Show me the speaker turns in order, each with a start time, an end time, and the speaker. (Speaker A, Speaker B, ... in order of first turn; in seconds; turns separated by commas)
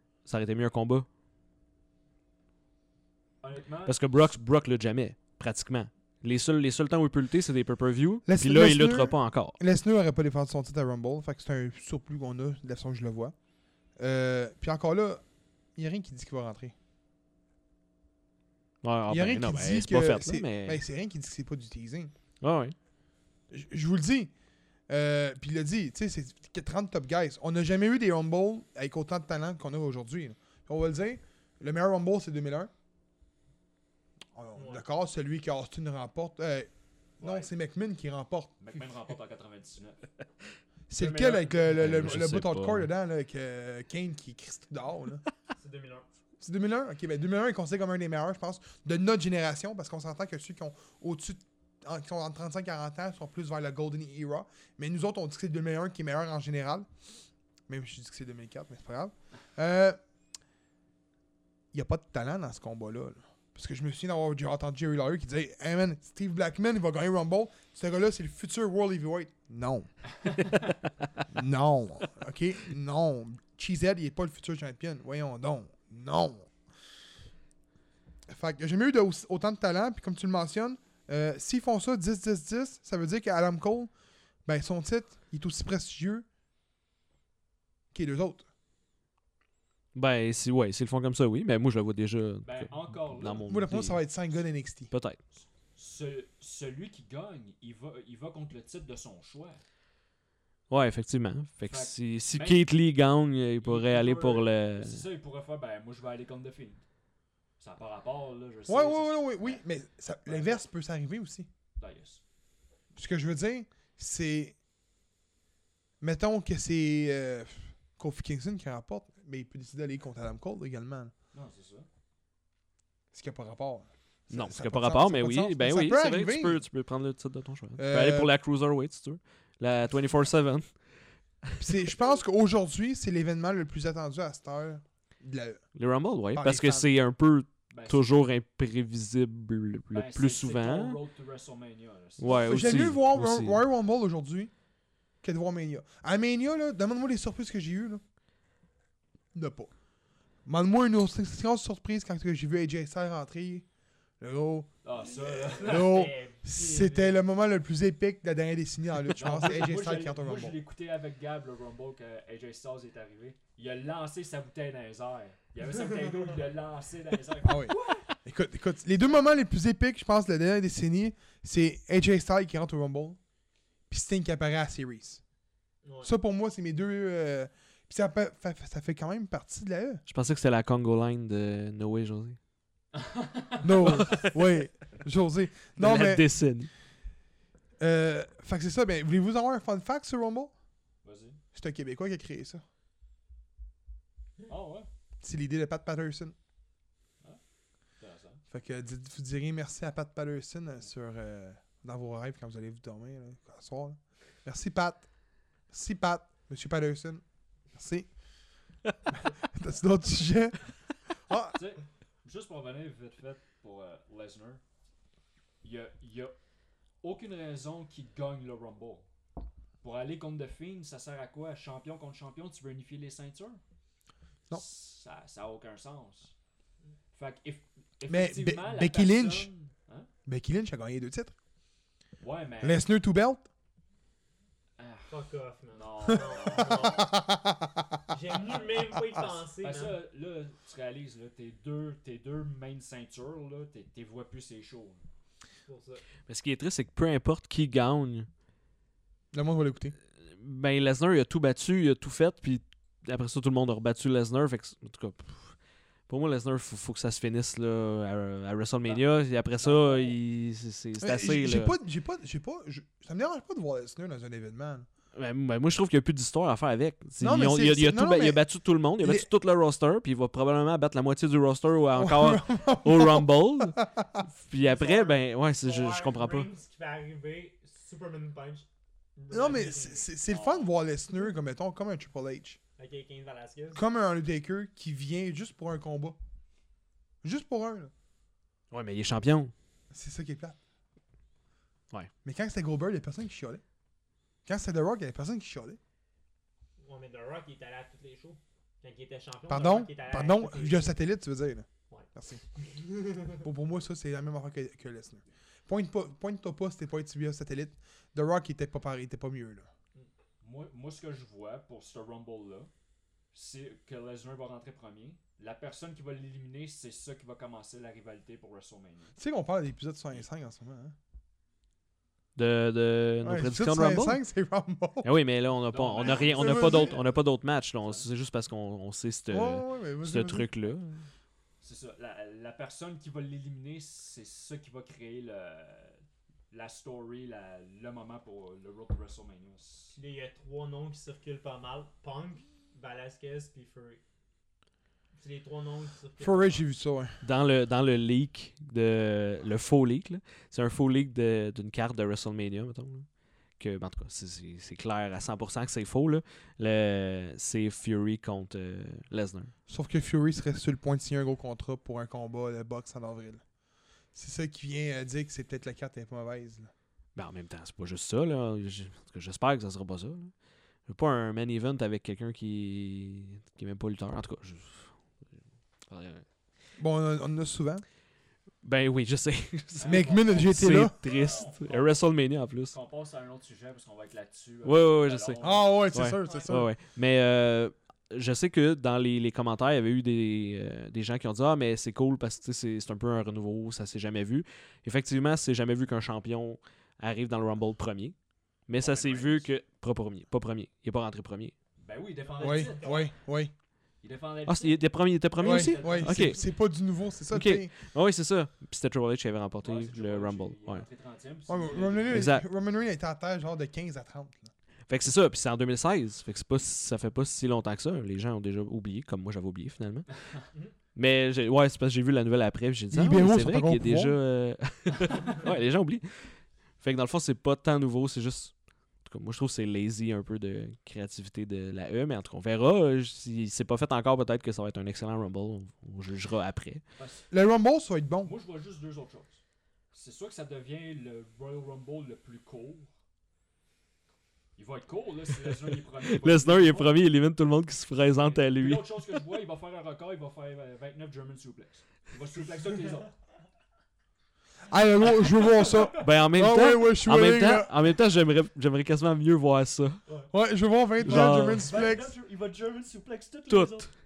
Speaker A: 0.2-1.1, Speaker B: 3.4-4.0, Speaker A: 3.9-9.6, Speaker C: 8.3-13.3, Speaker C: 14.0-15.2, Speaker C: 15.8-16.7, Speaker A: 18.8-20.8, Speaker C: 19.1-22.1, Speaker A: 22.4-22.8, Speaker C: 23.5-24.3, Speaker C: 24.9-32.7, Speaker C: 34.4-38.6, Speaker D: 34.5-34.9, Speaker B: 37.2-37.5, Speaker B: 38.6-40.1, Speaker C: 40.9-45.2, Speaker B: 41.0-42.1, Speaker A: 41.7-42.9, Speaker D: 45.6-46.1, Speaker C: 46.4-56.9, Speaker C: 57.7-60.0, Speaker C: 61.7-69.9, Speaker C: 71.3-76.5, Speaker C: 78.3-83.9, Speaker C: 84.5-86.3, Speaker C: 87.9-88.5, Speaker A: 89.9-94.0, Speaker B: 92.4-93.4, Speaker C: 93.5-94.9, Speaker A: 94.9-95.2, Speaker B: 95.3-99.6, Speaker A: 100.7-105.0, Speaker B: 101.6-102.7, Speaker B: 103.6-106.8, Speaker B: 107.6-109.6, Speaker C: 108.7-111.5, Speaker B: 110.3-110.6, Speaker B: 111.8-112.2, Speaker C: 113.0-114.5, Speaker C: 116.0-121.1, Speaker B: 121.3-121.9, Speaker C: 123.1-126.6, Speaker A: 124.3-130.9, Speaker C: 127.8-128.3, Speaker C: 131.6-135.7, Speaker A: 135.8-141.0, Speaker C: 136.3-136.9, Speaker B: 137.7-138.1, Speaker B: 139.9-143.0, Speaker A: 142.2-143.6, Speaker C: 142.3-144.5, Speaker C: 145.2-148.0, Speaker C: 149.3-149.7, Speaker C: 150.4-153.7, Speaker C: 154.2-160.6, Speaker B: 154.8-156.1, Speaker D: 155.6-157.2, Speaker B: 159.1-168.1, Speaker C: 167.4-173.2, Speaker C: 173.9-175.2, Speaker D: 175.8-176.1, Speaker C: 176.0-180.0, Speaker A: 180.1-182.4, Speaker B: 182.9-184.2, Speaker C: 183.6-186.3, Speaker A: 183.8-184.3, Speaker A: 185.8-186.7, Speaker C: 187.8-190.5, Speaker B: 191.0-191.4, Speaker C: 191.5-192.6, Speaker B: 194.5-194.9, Speaker C: 195.2-196.3, Speaker B: 198.0-198.4, Speaker C: 198.5-205.1, Speaker C: 205.7-207.2, Speaker C: 207.7-208.1, Speaker C: 209.1-211.6, Speaker B: 211.5-214.6, Speaker B: 215.6-216.4, Speaker B: 217.0-219.1, Speaker B: 219.8-223.6, Speaker B: 224.5-226.3, Speaker B: 227.1-230.1, Speaker C: 228.1-229.5, Speaker C: 230.3-231.3, Speaker B: 232.2-232.9, Speaker C: 232.6-233.4, Speaker B: 234.8-235.2, Speaker D: 235.1-237.1, Speaker B: 235.7-237.1, Speaker C: 236.6-238.0, Speaker D: 238.1-240.0, Speaker B: 238.4-238.7, Speaker B: 239.6-245.1, Speaker D: 245.7-246.0, Speaker A: 246.3-248.3, Speaker C: 249.3-249.9, Speaker A: 250.2-261.7, Speaker B: 259.6-260.1, Speaker C: 261.0-264.9, Speaker A: 265.1-273.8, Speaker C: 267.2-268.4, Speaker C: 269.0-269.3, Speaker C: 271.9-274.1, Speaker A: 274.4-276.5, Speaker D: 274.6-280.1, Speaker C: 279.3-282.6, Speaker B: 280.3-280.7, Speaker D: 282.8-283.8, Speaker C: 283.8-286.2, Speaker C: 287.2-287.9, Speaker A: 288.7-289.5, Speaker C: 289.9-290.6, Speaker C: 292.2-293.6, Speaker C: 294.4-295.8, Speaker D: 296.8-300.9, Speaker C: 299.5-302.4, Speaker D: 301.9-303.4, Speaker C: 303.4-309.7, Speaker B: 310.4-312.7, Speaker B: 313.3-319.2, Speaker C: 319.2-320.9, Speaker A: 322.4-324.2, Speaker C: 323.2-325.1, Speaker A: 325.0-331.0, Speaker B: 325.7-327.1, Speaker C: 326.0-327.0, Speaker B: 327.8-328.1, Speaker C: 329.3-330.5, Speaker B: 331.6-340.0, Speaker D: 339.9-344.0, Speaker D: 345.2-346.7, Speaker C: 346.2-347.2, Speaker A: 347.2-359.5, Speaker C: 359.7-363.4, Speaker C: 364.1-366.7, Speaker A: 367.1-370.3, Speaker A: 370.9-375.2, Speaker A: 375.9-376.2, Speaker C: 376.8-377.8, Speaker A: 378.6-382.7, Speaker B: 379.8-385.8, Speaker C: 379.9-380.9, Speaker A: 384.6-401.6, Speaker C: 385.4-386.7, Speaker D: 386.2-386.6, Speaker B: 398.8-399.5, Speaker B: 401.8-403.1, Speaker D: 402.2-403.1, Speaker C: 402.4-403.5, Speaker B: 404.0-406.4, Speaker A: 404.5-406.4, Speaker C: 405.4-407.7, Speaker A: 407.3-410.9, Speaker B: 409.6-412.3, Speaker C: 411.5-414.5, Speaker A: 412.1-412.4, Speaker A: 414.9-420.2, Speaker A: 420.9-436.8, Speaker C: 422.9-424.2, Speaker B: 437.0-437.3, Speaker C: 437.3-438.3, Speaker B: 438.2-439.4, Speaker B: 439.9-442.9, Speaker B: 444.6-447.0, Speaker A: 446.0-448.9, Speaker B: 448.2-453.1, Speaker C: 454.7-457.7, Speaker A: 455.9-460.0, Speaker C: 460.3-462.1, Speaker B: 461.0-463.9, Speaker A: 461.0-461.7, Speaker A: 463.5-463.9